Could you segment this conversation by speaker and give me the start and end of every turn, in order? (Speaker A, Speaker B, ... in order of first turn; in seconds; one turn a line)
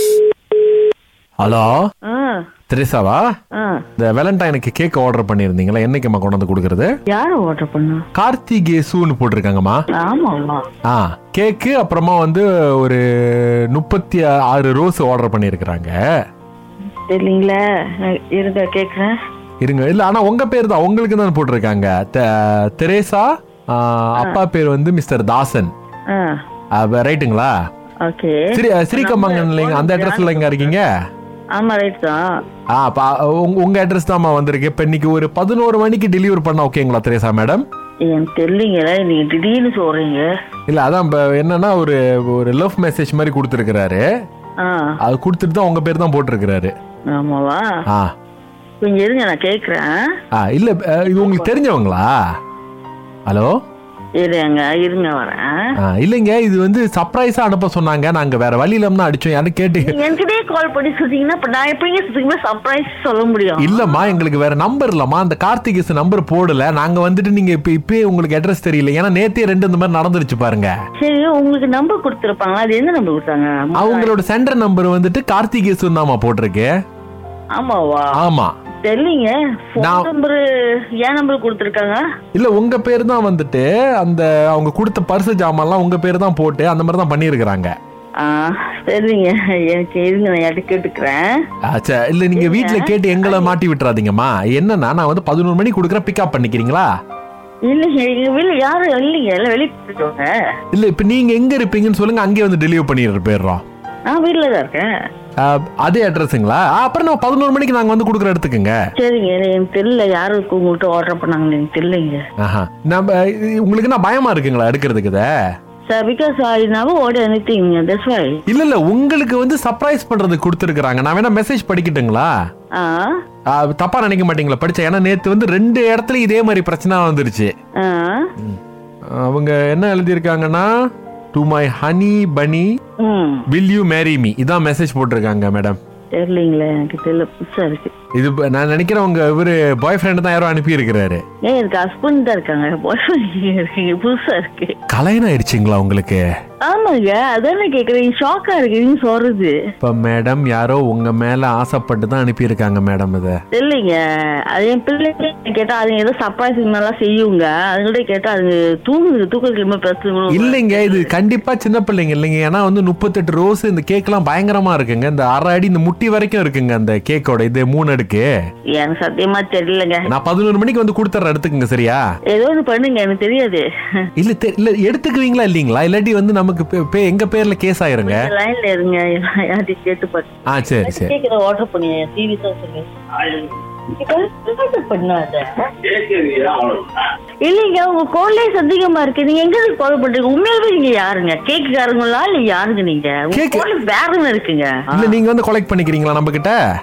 Speaker A: 1.4-1.8
Speaker B: 2.1-2.4
Speaker A: 2.7-3.2
Speaker B: 3.5-3.9
Speaker A: 4.0-6.9
Speaker B: 7.1-8.1
Speaker A: 8.1-9.8
Speaker B: 9.9-10.7
Speaker A: 10.8-15.9
Speaker B: 17.1-19.1
Speaker A: 19.6-25.7
Speaker B: 26.1-26.4
Speaker A: 26.7-27.5
Speaker B: 28.0-30.7
Speaker A: 28.5-30.9
Speaker B: 31.6-32.2
Speaker A: 32.7-37.6
Speaker B: 38.0-40.3
Speaker A: 40.7-44.0
Speaker B: 44.6-45.0
Speaker A: 45.0-46.7
Speaker B: 47.1-47.7
Speaker B: 48.8-49.9
Speaker A: 50.3-52.1
Speaker B: 51.2-51.5
Speaker A: 53.3-53.5
Speaker B: 54.2-55.7
Speaker A: 55.8-60.0
Speaker B: 59.8-64.2
Speaker A: 63.6-70.7
Speaker B: 71.0-74.2
Speaker A: 73.8-76.7
Speaker B: 77.5-78.2
Speaker A: 78.2-78.5
Speaker B: 78.8-80.4
Speaker A: 79.8-80.1
Speaker B: 81.0-82.0
Speaker A: 82.3-87.7
Speaker B: 88.2-91.4
Speaker A: 91.7-96.9
Speaker B: 92.4-93.5
Speaker B: 97.7-100.3
Speaker A: 100.7-103.6
Speaker B: 104.1-104.9
Speaker A: 105.4-108.8
Speaker B: 109.0-112.2
Speaker A: 112.4-115.3
Speaker B: 115.9-118.4
Speaker A: 118.5-122.3
Speaker B: 122.8-123.2
Speaker A: 123.5-127.5
Speaker B: 127.8-128.3
Speaker A: 129.1-130.7
Speaker A: 131.3-132.7
Speaker B: 133.0-133.5
Speaker A: 133.5-135.8
Speaker B: 136.2-137.9
Speaker A: 138.2-141.2
Speaker B: 141.4-144.8
Speaker A: 144.9-146.2
Speaker B: 146.6-149.5
Speaker A: 149.8-153.4
Speaker B: 153.5-154.0
Speaker B: 154.5-161.1
Speaker A: 160.3-168.3
Speaker B: 168.8-170.1
Speaker A: 170.1-172.0
Speaker B: 172.3-173.6
Speaker A: 174.2-178.3
Speaker B: 178.0-195.2
Speaker A: 180.5-181.1
Speaker A: 193.3-193.7
Speaker A: 194.9-196.6